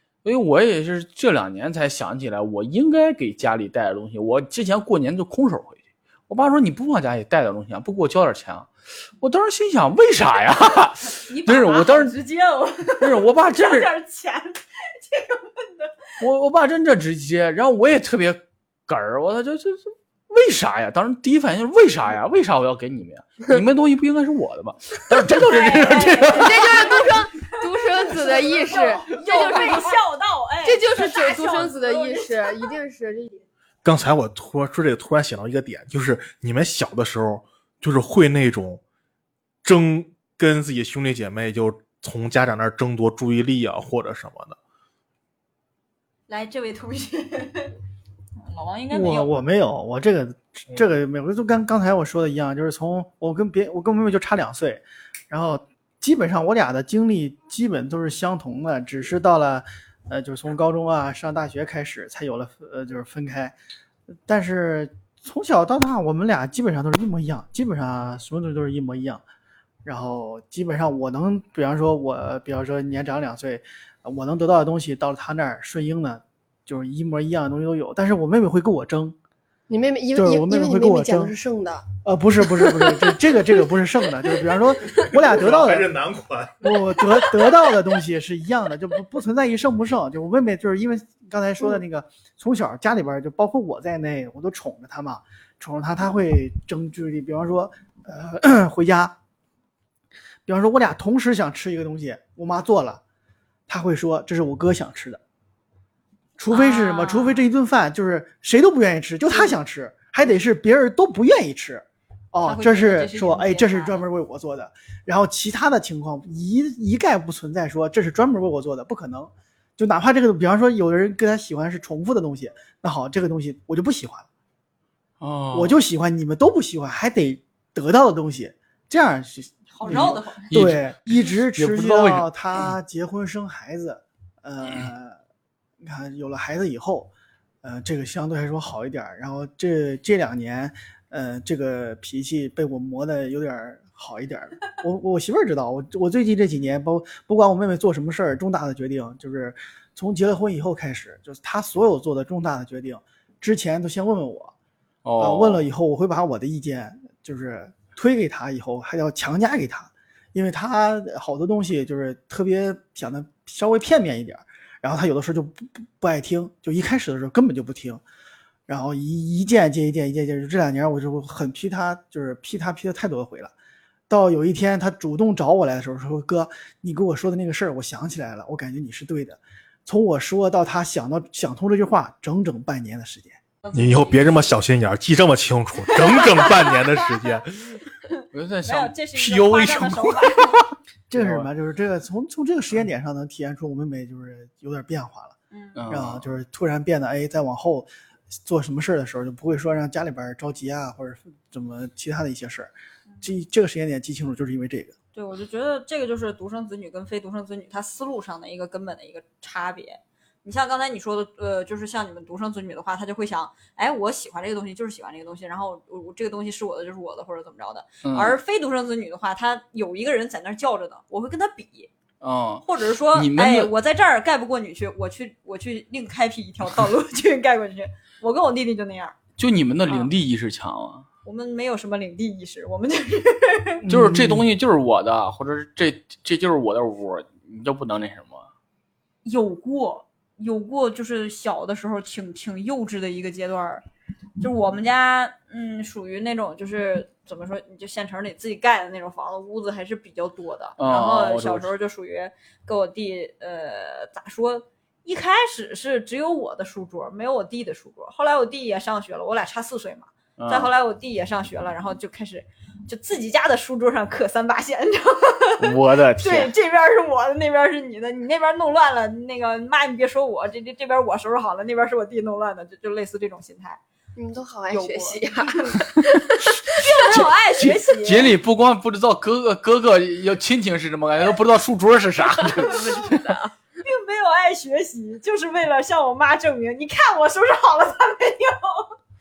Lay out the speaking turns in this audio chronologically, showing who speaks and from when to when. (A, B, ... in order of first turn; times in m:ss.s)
0:00.2-0:12.1 A
0:11.1-0:16.1 B
0:13.0-0:13.9 A
0:16.2-0:26.7 A
0:25.4-0:32.8 B
0:26.3-0:30.0 C
0:30.6-0:33.4 C
0:33.8-0:38.8 D
0:39.6-0:44.6 D
0:46.3-0:47.8 B
0:48.4-0:49.3 B
0:48.9-1:03.5 E
1:04.3-1:09.2 E
1:09.8-1:19.2 E
1:19.7-1:21.9 C
1:20.2-1:21.3 E
1:22.0-1:25.9 E
1:25.1-1:26.7 D
1:26.6-1:39.1 E
1:40.5-1:43.0 E
1:43.7-1:45.2 E
1:46.4-2:04.3 E
1:46.5-1:47.5 B
1:52.4-1:54.1 B
2:05.2-2:05.8 A
2:05.5-2:15.2 E
2:09.7-2:10.5 B
2:09.9-2:12.7 A
2:15.8-2:17.1 E
2:17.6-2:34.5 E
2:35.0-2:35.7 A
2:35.2-2:48.0 E
2:48.7-2:53.5 E
2:54.1-3:03.4 E
3:03.6-3:04.4 B
3:03.7-3:07.8 D
3:05.9-3:07.3 B
3:08.1-3:10.6 B
3:08.3-3:10.6 A
3:11.1-3:15.4 E
3:11.2-3:11.5 A
3:15.5-3:15.8 B
3:15.8-3:16.3 A
3:15.9-3:17.9 E
3:18.4-3:25.0 E
3:25.1-3:41.9 B
3:38.0-3:38.4 A
3:42.2-3:43.7 A
3:42.6-3:49.2 B
3:49.4-3:51.1 A
3:51.2-3:53.8 B
3:53.9-3:58.5 A
3:54.0-3:54.3 E
3:59.2-4:03.8 B
4:04.4-4:33.8 B
4:10.8-4:11.7 A
4:20.4-4:20.7 A
4:25.6-4:26.5 A
4:34.2-4:36.8 C
4:34.7-4:35.8 B
4:36.0-4:43.3 A
4:36.7-4:38.4 B
4:42.6-4:43.5 C
4:43.8-4:49.0 B